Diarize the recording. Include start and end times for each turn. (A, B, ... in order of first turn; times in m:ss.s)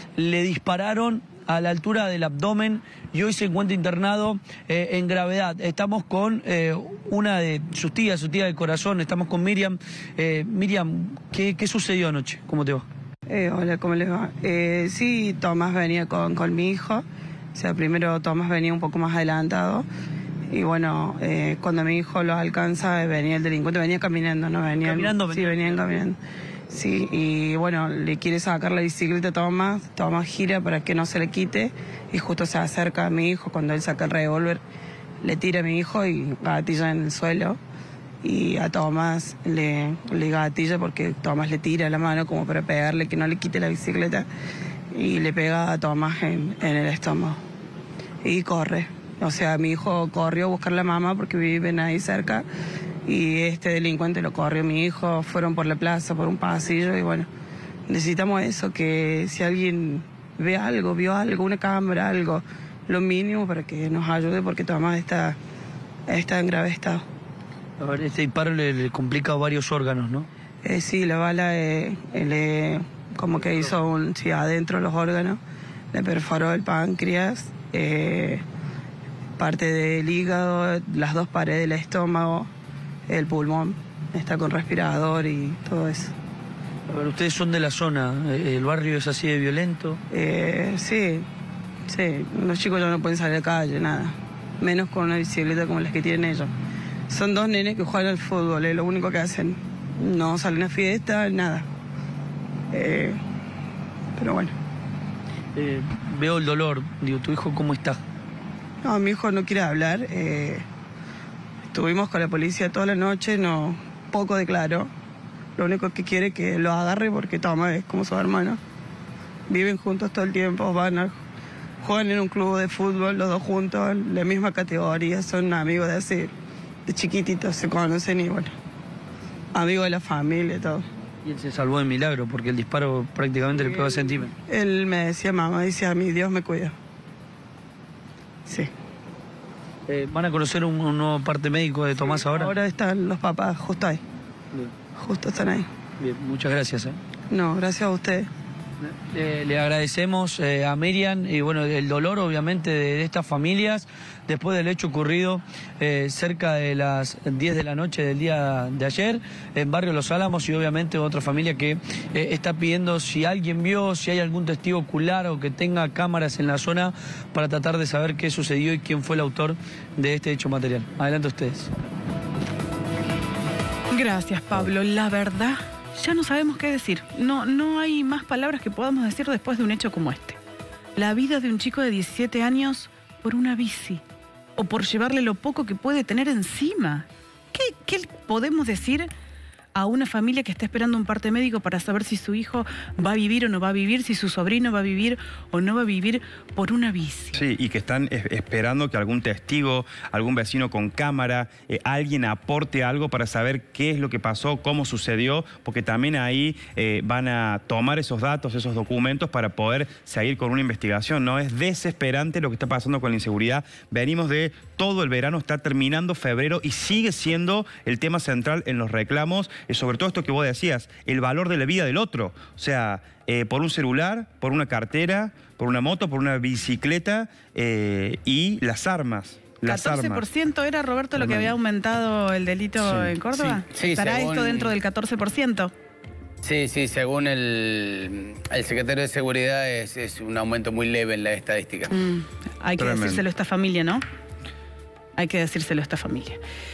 0:00.2-0:12.9 A
0:13.3-0:19.9 B
0:20.5-0:26.2 B
0:24.8-0:26.0 A
0:26.7-0:34.6 B
0:35.2-0:37.6 B
0:38.2-0:44.3 B
0:44.9-0:47.4 B
0:48.2-0:52.4 B
0:53.0-0:57.3 B
0:57.9-1:05.4 B
1:06.1-1:07.0 B
1:07.8-1:10.3 A
1:10.6-1:15.4 B
1:15.9-1:18.4 B
1:19.4-1:22.5 B
1:23.1-1:26.1 B
1:26.9-1:30.0 A
1:30.1-1:31.3 B
1:31.9-1:36.5 B
1:37.1-1:41.7 B
1:42.7-1:43.2 B
1:44.2-1:44.6 B
1:45.6-1:48.0 A
1:48.8-1:50.6 B
1:51.7-1:54.9 B
1:55.6-1:58.6 B
1:59.5-2:01.2 B
2:01.8-2:06.3 B
2:06.9-2:08.5 B
2:09.5-2:10.8 B
2:11.2-2:14.3 A
2:14.1-2:16.7 B
2:19.9-2:22.5 A
2:22.0-2:24.0 B
2:25.0-2:25.7 B
2:26.0-2:27.0 A
2:27.3-2:28.3 B
2:28.8-2:51.7 A
2:53.9-3:00.4 C
3:01.0-3:04.0 C
3:04.6-3:09.1 C
3:09.7-3:17.4 C
3:17.3-3:50.3 D
3:49.7-3:55.7 C
3:51.2-3:51.6 D
3:52.8-3:53.6 D
3:53.7-3:54.8 E
3:56.4-4:02.0 E
4:01.9-4:04.0 C
4:02.8-4:03.2 D
4:05.2-4:06.4 C